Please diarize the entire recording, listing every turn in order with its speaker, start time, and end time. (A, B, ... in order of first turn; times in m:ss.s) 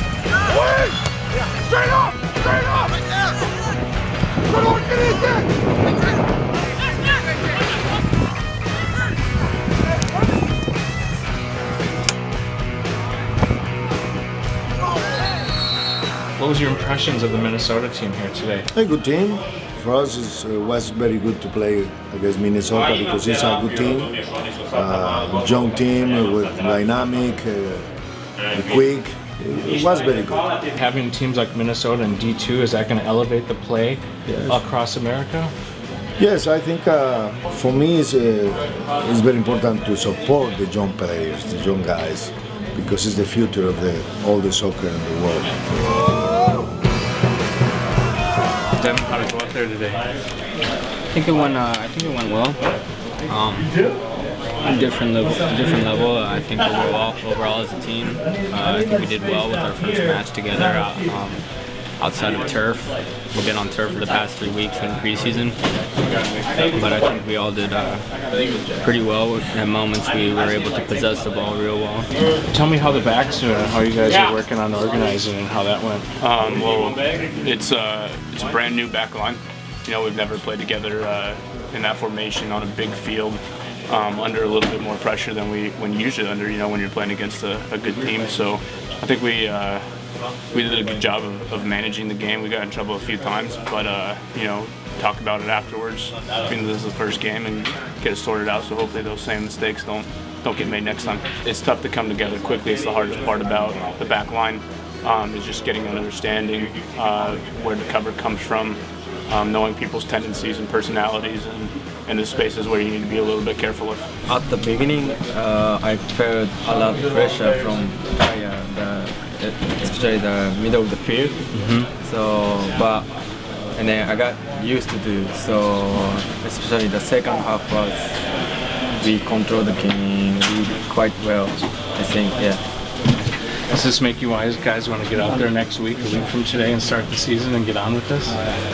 0:16.4-0:18.7 A
0:18.7-0:24.2 B
0:24.7-0:27.9 B
0:28.5-0:30.5 B
0:30.7-0:35.5 A
0:36.2-0:45.5 B
0:48.8-0:50.0 A
0:51.1-0:52.7 C
0:53.3-0:53.7 C
0:54.6-1:01.4 C
1:02.0-1:05.6 C
1:06.0-1:06.7 A
1:06.5-1:08.1 C
1:08.8-1:12.1 C
1:12.5-1:16.1 A
1:16.2-1:29.9 D
1:30.5-1:54.1 D
1:54.2-2:01.5 E
1:57.1-1:57.4 A
2:01.5-2:01.9 A
2:02.0-2:03.1 E
2:03.7-2:08.2 E
2:09.0-2:12.6 E
2:13.7-2:18.4 A